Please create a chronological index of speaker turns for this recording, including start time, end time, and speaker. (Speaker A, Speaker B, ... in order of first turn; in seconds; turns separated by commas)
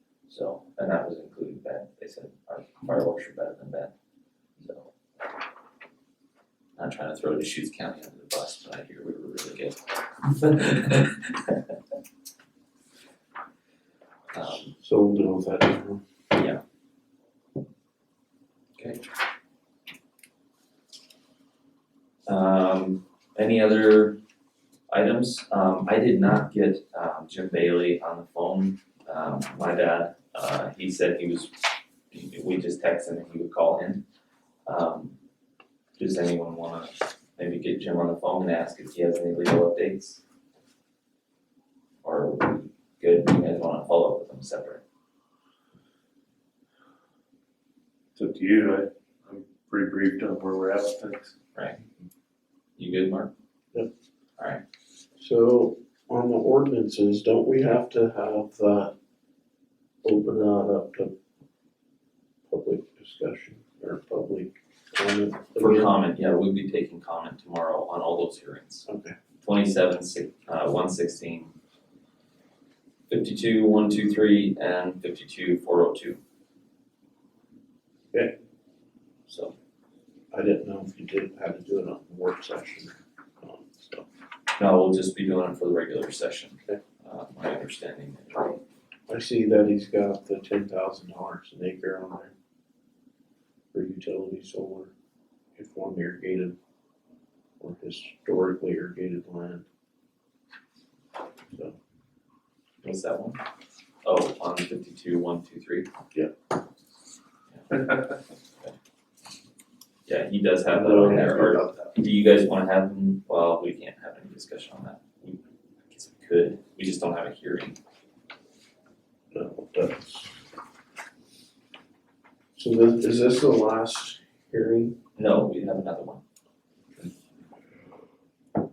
Speaker A: 0.3-3.9, Speaker A: 4.6-4.9, Speaker A: 6.8-11.8, Speaker A: 14.3-14.7, Speaker B: 14.6-16.0, Speaker A: 16.3-16.6, Speaker A: 18.8-19.0, Speaker A: 22.3-24.2, Speaker A: 24.9-31.5, Speaker A: 32.1-34.0, Speaker A: 34.7-35.1, Speaker A: 36.0-40.2, Speaker A: 42.0-44.8, Speaker C: 48.2-51.3, Speaker A: 51.5-51.8, Speaker A: 52.8-53.3, Speaker B: 55.2-58.9, Speaker B: 60.0-61.1, Speaker B: 62.5-65.9, Speaker A: 65.6-68.9, Speaker B: 68.9-69.1, Speaker A: 69.4-71.5, Speaker A: 73.1-76.2, Speaker A: 79.3-79.5, Speaker B: 80.3-84.1, Speaker A: 84.6-88.6, Speaker B: 89.1-92.3, Speaker B: 93.7-94.9, Speaker B: 95.6-96.5, Speaker B: 97.6-99.6, Speaker A: 102.8-103.4, Speaker A: 104.0-105.9, Speaker A: 107.5-107.9, Speaker A: 110.1-117.8, Speaker B: 110.7-111.7, Speaker B: 119.3-120.3, Speaker B: 122.6-125.0, Speaker A: 125.2-126.2